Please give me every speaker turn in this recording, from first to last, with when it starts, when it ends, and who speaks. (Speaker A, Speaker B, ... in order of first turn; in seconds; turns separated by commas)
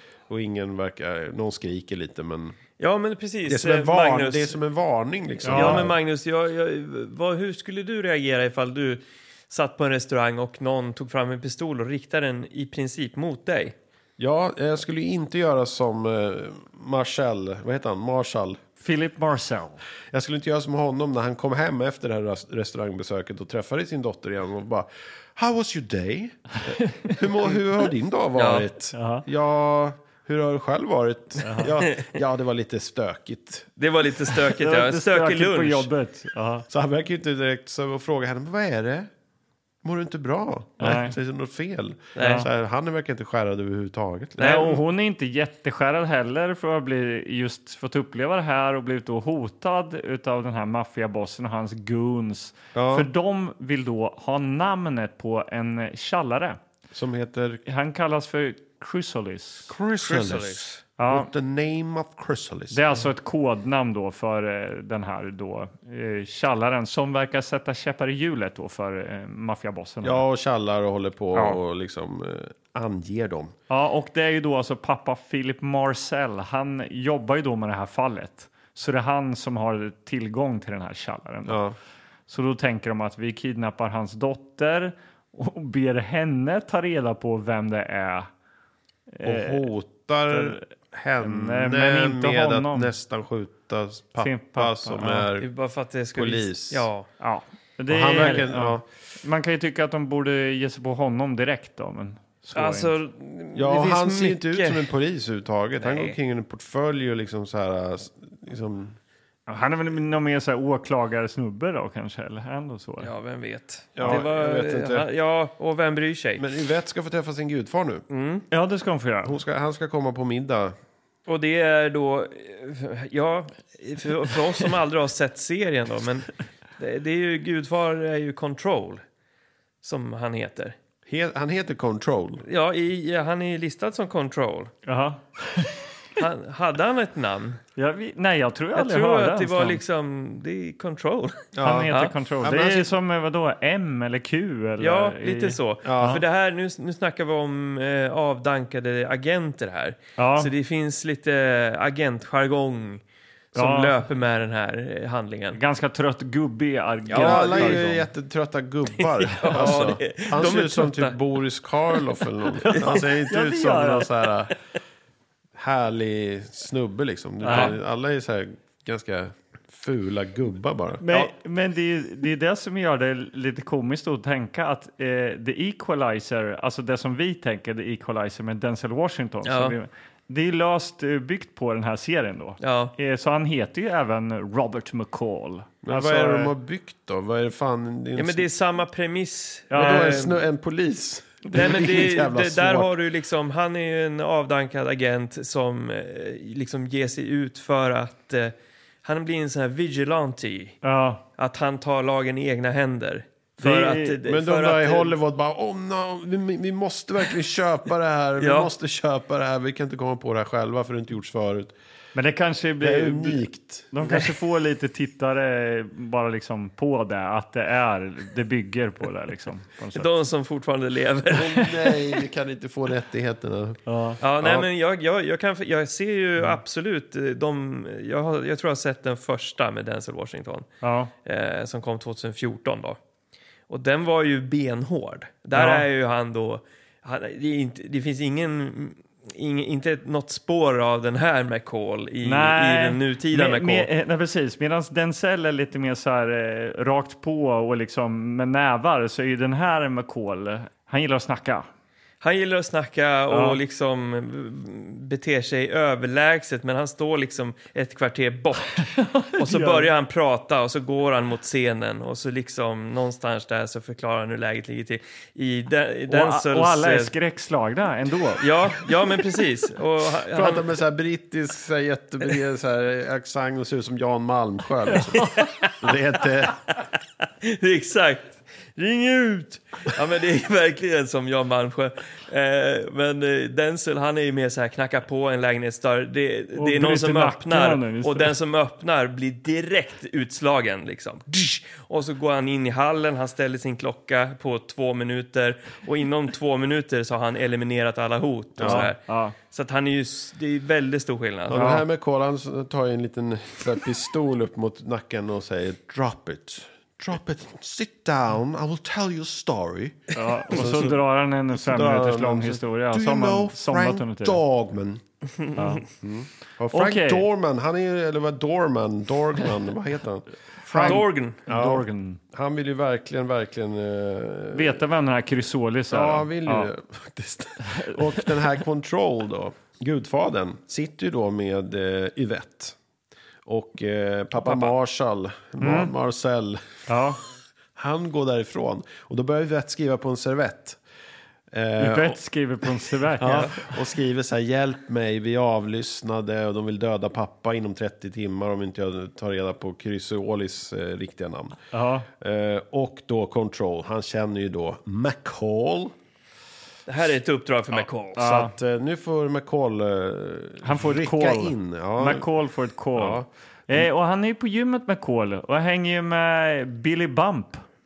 Speaker A: 0.3-2.6, Speaker B: 2.8-4.6, Speaker A: 3.5-6.0, Speaker C: 5.4-5.8, Speaker B: 5.4-13.7, Speaker A: 14.2-18.6, Speaker C: 18.8-19.8, Speaker A: 20.1-33.7, Speaker C: 26.7-27.2, Speaker B: 28.4-28.6, Speaker C: 28.9-29.2, Speaker C: 31.4-31.7, Speaker B: 33.8-35.9, Speaker C: 34.5-36.6, Speaker A: 36.7-39.1, Speaker A: 39.8-44.6, Speaker C: 40.8-41.1, Speaker B: 42.1-42.5, Speaker C: 42.2-42.5, Speaker B: 44.4-44.8, Speaker C: 44.4-56.6, Speaker A: 52.7-53.1, Speaker A: 56.9-57.6, Speaker C: 57.6-59.7, Speaker A: 59.7-62.8, Speaker B: 60.0-60.8, Speaker C: 61.0-61.3, Speaker C: 62.7-70.2, Speaker A: 70.0-73.5, Speaker C: 73.7-81.6, Speaker A: 81.5-81.8, Speaker C: 82.3-88.3, Speaker C: 89.1-89.7, Speaker A: 89.2-95.5, Speaker C: 90.3-90.6, Speaker C: 91.2-92.9, Speaker C: 94.2-95.3, Speaker B: 95.4-97.1, Speaker A: 96.1-96.9, Speaker C: 97.2-103.0, Speaker A: 97.9-98.8, Speaker B: 102.5-104.9, Speaker A: 103.5-109.0, Speaker B: 105.8-106.2, Speaker C: 109.5-113.1, Speaker B: 113.0-116.5, Speaker A: 114.0-115.1, Speaker A: 116.4-118.0, Speaker B: 118.1-118.4, Speaker C: 118.5-119.3, Speaker A: 119.2-120.7, Speaker B: 121.3-129.0, Speaker B: 129.8-130.8, Speaker A: 131.1-132.4, Speaker B: 132.4-134.7, Speaker C: 134.8-135.8, Speaker B: 136.2-137.6, Speaker C: 137.8-139.8, Speaker B: 138.7-142.1, Speaker A: 141.5-142.9, Speaker C: 141.6-146.2, Speaker B: 144.8-153.0, Speaker A: 145.8-146.2, Speaker C: 150.2-150.5, Speaker B: 153.5-155.6, Speaker C: 153.5-153.9, Speaker C: 155.5-158.1, Speaker B: 157.1-157.8, Speaker A: 157.1-164.5, Speaker B: 159.3-161.2, Speaker B: 162.6-163.1, Speaker C: 162.7-164.1, Speaker A: 165.6-171.1, Speaker C: 167.4-167.7, Speaker B: 167.5-167.7, Speaker C: 171.0-186.5, Speaker B: 179.4-179.7, Speaker B: 182.6-182.9, Speaker A: 185.8-188.5, Speaker B: 188.2-190.4, Speaker C: 189.7-190.1, Speaker A: 189.7-192.9, Speaker B: 191.5-198.5, Speaker B: 199.0-200.8, Speaker C: 200.8-201.2, Speaker B: 201.4-205.1, Speaker C: 203.6-204.2, Speaker A: 204.2-211.7, Speaker B: 208.4-208.7, Speaker C: 212.1-220.1, Speaker A: 212.8-213.9, Speaker B: 219.9-222.0, Speaker A: 221.3-223.8, Speaker C: 223.9-224.2, Speaker B: 224.2-230.7, Speaker A: 224.4-224.7, Speaker C: 230.8-231.1, Speaker B: 231.2-233.0, Speaker B: 233.7-243.9, Speaker C: 235.5-235.8, Speaker C: 242.2-251.7, Speaker B: 252.2-267.1, Speaker C: 253.3-253.6, Speaker C: 258.9-259.9, Speaker C: 266.1-268.9, Speaker B: 268.4-270.7, Speaker A: 270.3-276.6, Speaker C: 274.9-275.5, Speaker B: 275.1-275.8, Speaker B: 277.4-301.7, Speaker C: 286.6-288.3, Speaker A: 298.6-298.9, Speaker C: 298.6-299.3, Speaker A: 301.5-311.0, Speaker C: 301.5-301.8, Speaker C: 310.1-314.4, Speaker A: 311.5-315.0, Speaker C: 315.5-315.8, Speaker A: 315.9-324.8, Speaker C: 316.7-317.3, Speaker C: 320.6-322.2, Speaker B: 320.8-321.4, Speaker C: 324.5-326.7, Speaker A: 325.9-332.8, Speaker C: 327.7-328.2, Speaker A: 333.4-336.9, Speaker B: 334.4-334.7, Speaker C: 335.6-335.9, Speaker C: 336.9-337.2, Speaker A: 337.8-340.8, Speaker A: 341.5-342.2, Speaker C: 341.8-343.8, Speaker A: 343.2-351.6, Speaker B: 343.2-343.5, Speaker C: 351.7-352.1, Speaker A: 352.2-355.9, Speaker B: 356.9-358.2, Speaker C: 358.1-358.5, Speaker A: 358.1-362.3, Speaker C: 360.6-367.6, Speaker A: 362.9-363.8